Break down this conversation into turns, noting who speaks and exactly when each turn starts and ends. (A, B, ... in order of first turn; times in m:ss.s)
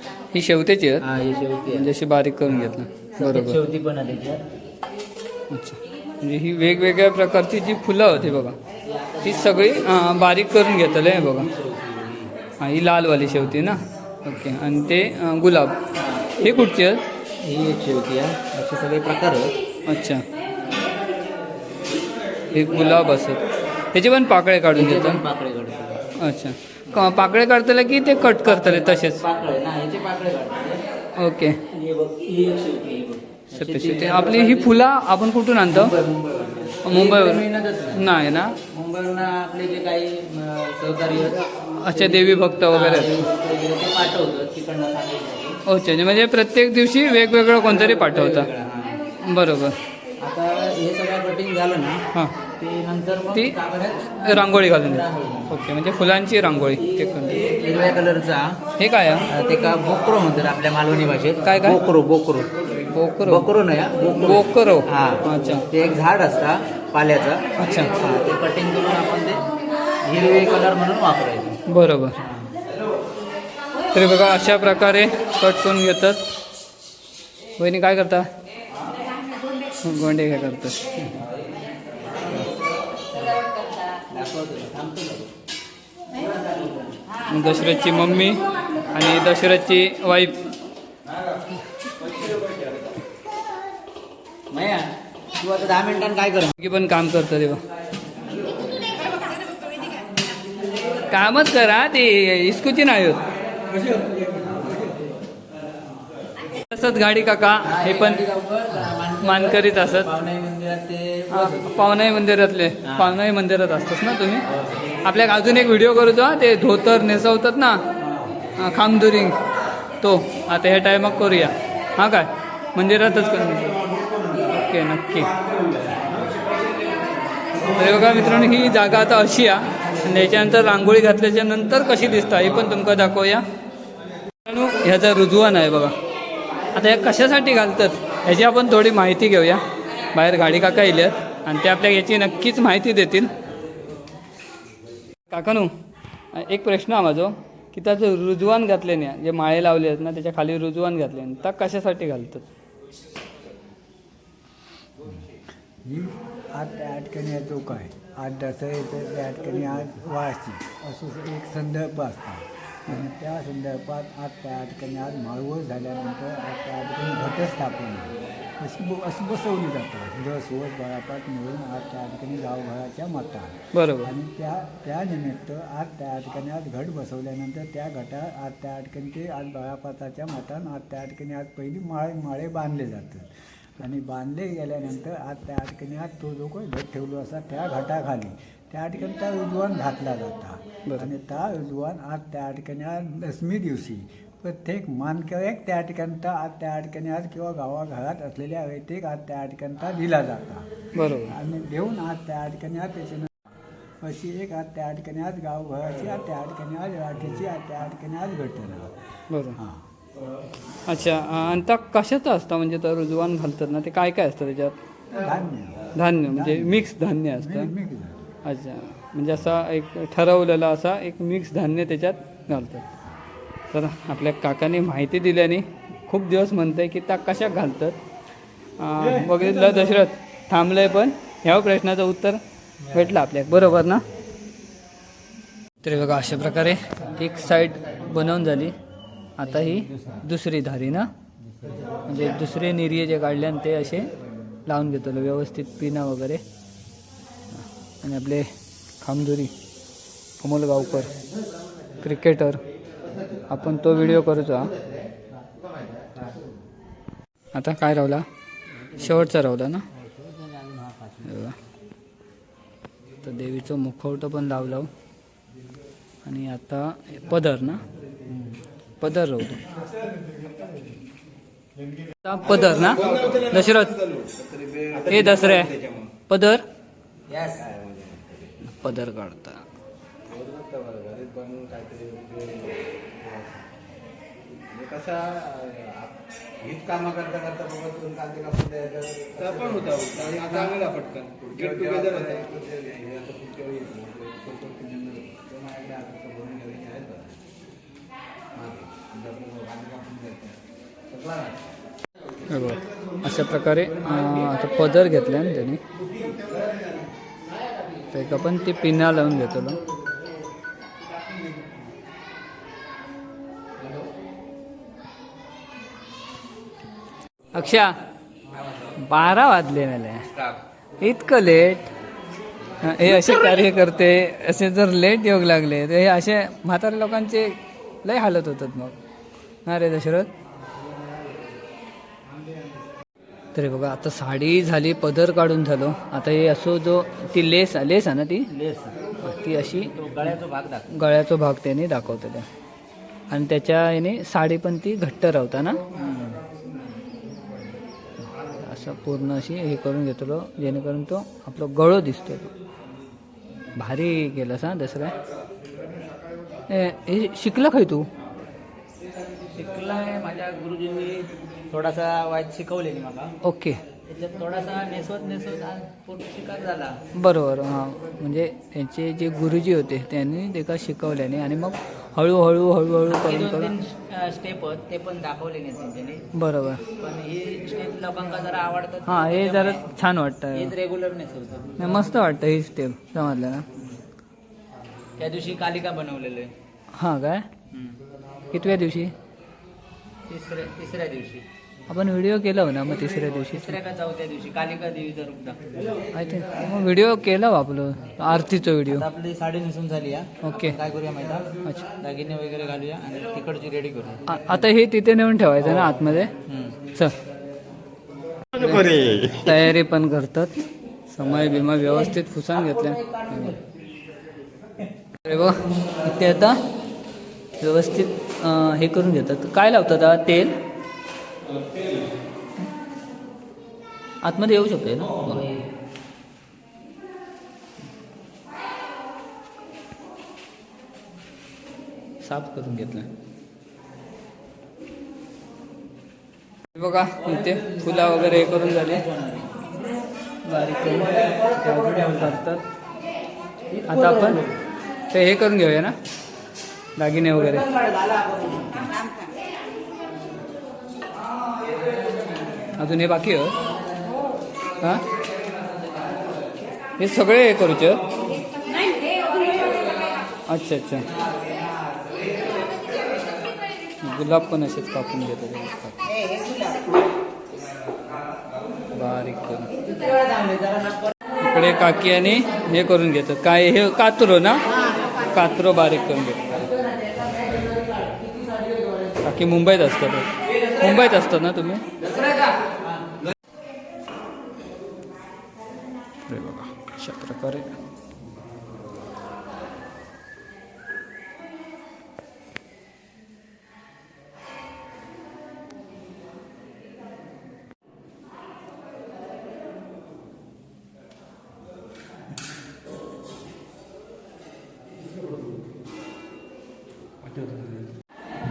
0:00.3-0:01.0 A
0:01.0-0:01.9 B
0:01.7-0:03.6 A
0:02.5-0:04.4 B
0:05.5-0:08.6 A
0:08.8-0:12.4 B
0:09.2-0:11.5 A
0:12.6-0:15.8 A
0:15.9-0:16.6 B
0:16.4-0:17.0 A
0:17.4-0:19.6 B
0:19.9-0:20.2 A
0:20.6-0:20.9 B
0:22.5-0:23.3 B
0:22.5-0:25.2 A
0:24.7-0:26.0 B
0:26.2-0:29.2 A
0:28.2-0:30.8 B
0:31.2-0:31.6 A
0:31.7-0:34.8 B
0:33.5-0:35.9 A
0:35.7-0:38.1 B
0:36.8-0:37.4 A
0:38.0-0:38.6 A
0:38.7-0:45.6 B
0:41.8-0:43.3 A
0:45.7-0:48.5 A
0:47.6-0:49.0 B
0:49.2-0:49.8 A
0:50.2-0:52.0 B
0:52.6-0:55.6 B
0:54.2-0:57.4 A
0:56.8-0:58.6 B
0:58.8-0:59.3 A
0:59.3-1:02.5 B
1:01.4-1:01.8 A
1:02.9-1:03.5 A
1:03.2-1:09.5 B
1:04.2-1:05.6 A
1:07.6-1:08.0 A
1:10.0-1:11.6 B
1:11.7-1:12.2 A
1:12.2-1:12.5 B
1:13.9-1:16.3 A
1:17.6-1:18.3 A
1:19.8-1:20.8 A
1:21.1-1:21.4 B
1:23.1-1:23.4 B
1:24.1-1:25.3 B
1:26.1-1:27.0 B
1:27.3-1:30.5 A
1:34.5-1:36.6 B
1:36.6-1:37.6 A
1:41.1-1:43.2 A
1:43.9-1:44.4 B
1:46.7-1:48.2 A
1:47.6-1:51.7 B
1:49.2-1:50.1 A
1:51.3-1:54.4 A
1:52.8-1:53.2 B
1:54.5-1:55.0 B
1:55.0-1:57.8 A
1:58.0-1:58.4 B
1:58.6-1:59.4 A
2:00.0-2:03.8 A
2:04.4-2:05.4 A
2:07.7-2:13.4 A
2:14.5-2:15.9 A
2:16.7-2:23.3 A
2:25.3-2:25.7 A
2:26.3-2:32.5 A
2:35.8-3:20.7 C
2:53.7-2:54.1 A
3:21.0-3:21.4 A
3:21.2-3:23.3 C
3:24.0-3:28.9 C
3:29.3-3:29.6 A
3:29.6-3:29.9 C
3:30.9-3:34.8 A
3:35.2-3:38.3 C
3:36.0-3:37.7 A
3:38.4-3:42.8 A
3:43.7-3:48.0 A
3:48.8-3:52.4 A
3:52.8-3:53.1 B
3:52.9-3:54.0 A
3:55.8-3:58.8 A
3:59.4-4:01.1 A
3:59.5-4:00.2 B
4:01.4-4:02.1 B
4:02.1-4:04.1 A
4:04.7-4:06.4 A
4:08.0-4:08.5 A
4:09.0-4:09.5 A
4:10.4-4:11.1 A
4:12.0-4:12.6 A
4:13.5-4:14.7 A
4:16.0-4:16.3 B
4:17.5-4:18.2 A
4:18.8-4:19.3 B
4:18.9-4:19.8 A
4:19.9-4:21.5 B
4:21.3-4:21.6 A
4:23.2-4:24.9 A
4:26.2-4:27.9 A
4:28.3-4:28.6 B
4:29.0-4:29.6 A
4:32.2-4:34.0 A
4:32.4-4:36.1 D
4:35.1-4:35.7 A
4:36.3-4:36.6 A
4:37.3-4:37.6 B
4:37.6-4:38.5 D
4:38.6-4:39.6 A
4:40.3-4:43.6 D
4:44.7-4:57.4 D
4:50.5-4:50.8 A
4:58.6-5:00.6 D
5:01.1-5:01.6 D
5:02.5-5:05.8 A
5:08.1-5:09.8 A
5:17.5-5:17.9 A
5:19.0-5:20.3 A
5:21.0-5:21.9 A
5:22.8-5:29.0 A
5:29.7-5:30.3 A
5:33.6-5:38.5 A
5:38.5-5:40.9 B
5:39.2-5:40.0 A
5:40.9-5:42.5 A
5:43.3-5:45.8 A
5:46.0-5:46.4 B
5:48.5-5:52.5 A
5:53.8-5:55.2 A
5:56.7-5:58.1 A
5:59.5-6:03.4 B
6:03.4-6:03.8 A
6:04.0-6:07.0 B
6:07.2-6:13.7 A
6:13.1-6:16.3 B
6:16.4-6:16.8 A
6:17.0-6:19.9 B
6:19.1-6:20.7 A
6:20.5-6:22.0 B
6:21.8-6:23.7 A
6:25.2-6:26.5 B
6:26.9-6:27.5 A
6:27.7-6:28.0 B
6:28.5-6:29.1 A
6:30.3-6:31.5 B
6:31.9-6:33.8 A
6:32.9-6:36.1 B
6:36.1-6:39.1 A
6:38.9-6:44.3 B
6:40.4-6:40.8 A
6:44.3-6:46.3 A
6:46.5-6:46.8 B
6:48.6-6:53.5 A
6:51.4-6:53.6 B
6:55.2-6:56.6 A
6:57.6-7:00.6 A
7:01.5-7:02.0 D
7:04.2-7:05.4 A
7:05.0-7:05.6 B
7:12.2-7:13.1 A
7:16.7-7:19.0 A
7:17.2-7:19.7 B
7:20.5-7:22.6 A
7:20.6-7:22.4 B
7:23.7-7:24.5 B
7:23.9-7:24.4 A
7:25.1-7:26.0 A
7:27.0-7:27.6 A
7:27.3-7:28.9 B
7:32.8-7:33.6 A
7:34.8-7:35.1 A
7:37.0-7:38.0 A
7:40.5-7:41.1 A
7:44.0-7:46.0 A
7:48.9-7:49.7 A
7:49.8-7:51.2 B
7:51.4-7:54.7 A
7:55.2-7:56.6 A
7:56.7-7:59.0 B
7:59.2-8:01.9 A
8:02.0-8:03.0 B
8:06.3-8:07.7 A
8:27.4-8:27.7 D